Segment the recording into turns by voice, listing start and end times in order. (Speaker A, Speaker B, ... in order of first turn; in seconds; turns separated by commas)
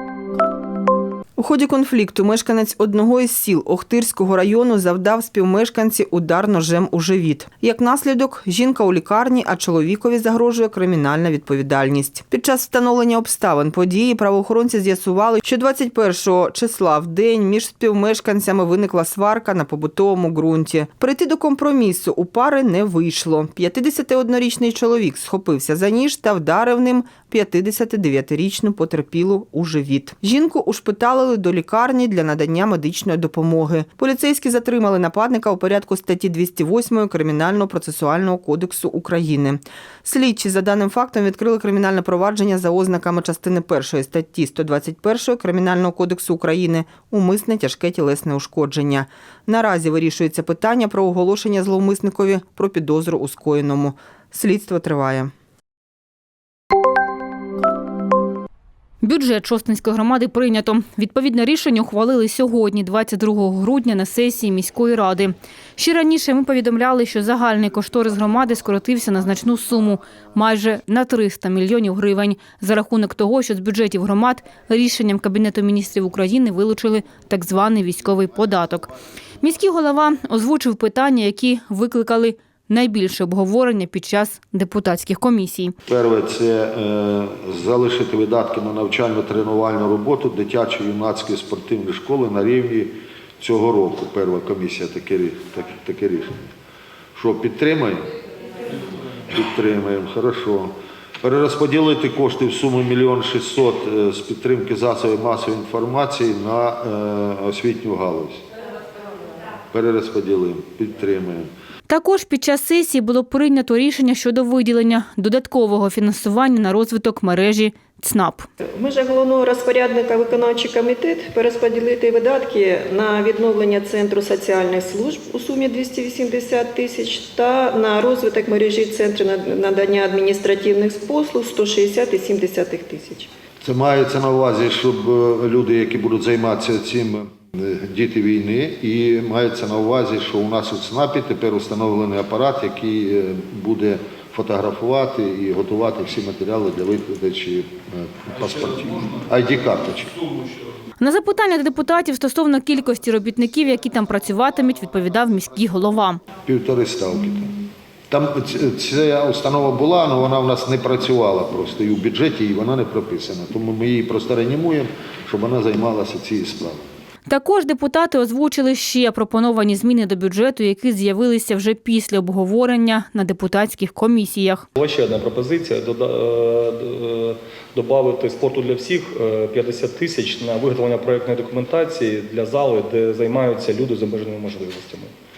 Speaker A: 1.4-55.3, Speaker B: 59.0-78.9, Speaker B: 79.4-85.7, Speaker C: 85.8-96.5, Speaker C: 97.2-98.1, Speaker C: 99.3-108.4, Speaker C: 109.7-111.5, Speaker B: 111.9-118.5, Speaker D: 118.8-133.3, Speaker C: 133.6-150.2, Speaker B: 151.0-156.2, Speaker C: 156.4-166.8, Speaker B: 167.3-174.6, Speaker E: 174.7-185.1